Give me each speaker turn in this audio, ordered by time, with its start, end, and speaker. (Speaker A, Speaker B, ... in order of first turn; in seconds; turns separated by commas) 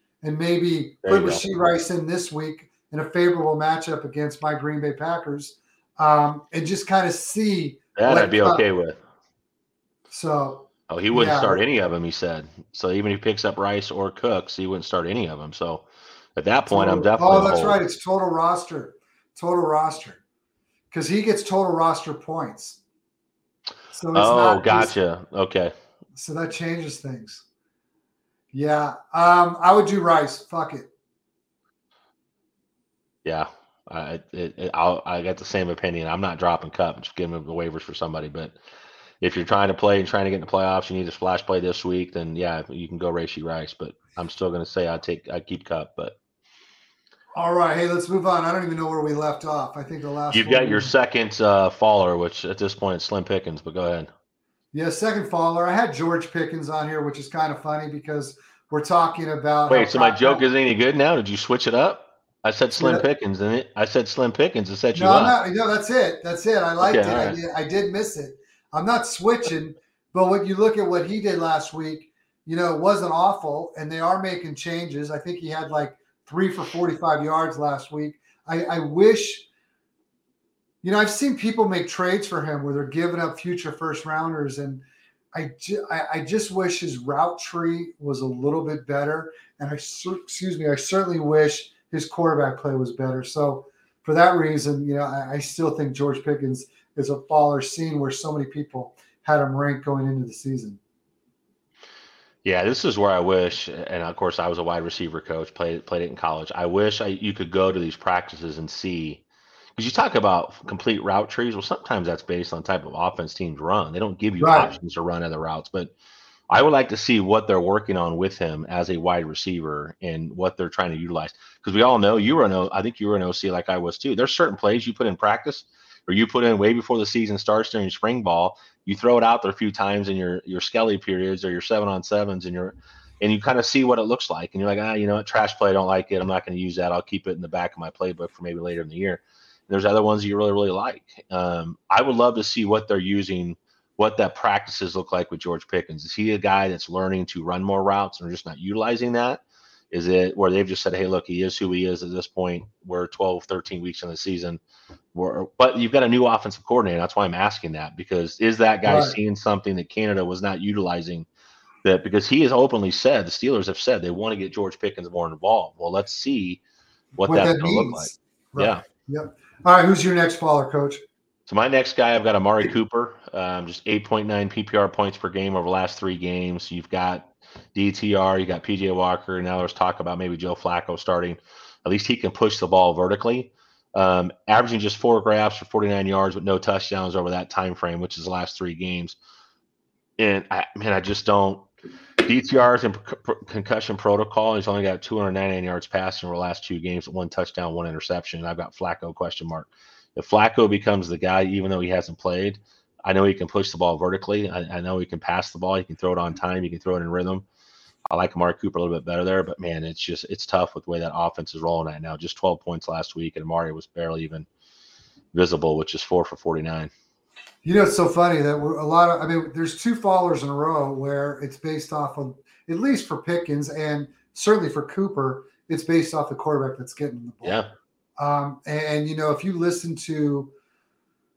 Speaker A: 0.2-8.6, Speaker B: 1.0-1.4, Speaker B: 8.0-9.0, Speaker A: 10.1-11.6, Speaker B: 10.9-17.8, Speaker A: 16.7-20.2, Speaker A: 20.9-22.8, Speaker A: 23.9-24.9, Speaker B: 24.1-25.7, Speaker A: 26.1-27.4, Speaker A: 28.5-30.9, Speaker B: 33.2-38.6, Speaker B: 39.2-46.2, Speaker A: 47.3-50.9, Speaker B: 50.3-54.1, Speaker A: 54.7-60.5, Speaker B: 59.7-65.3, Speaker A: 62.8-63.0, Speaker A: 64.9-79.5, Speaker B: 66.8-67.4, Speaker A: 80.8-100.8, Speaker B: 102.4-109.2, Speaker B: 109.8-115.9, Speaker A: 114.4-114.7, Speaker B: 116.5-154.6, Speaker B: 155.1-161.3, Speaker A: 158.8-159.2, Speaker B: 161.8-166.6, Speaker B: 167.2-168.8, Speaker A: 167.2-171.0, Speaker B: 171.5-189.2, Speaker B: 190.2-191.7, Speaker B: 192.2-207.4, Speaker B: 208.1-214.4, Speaker B: 215.3-216.9, Speaker A: 217.6-227.6, Speaker A: 228.2-230.5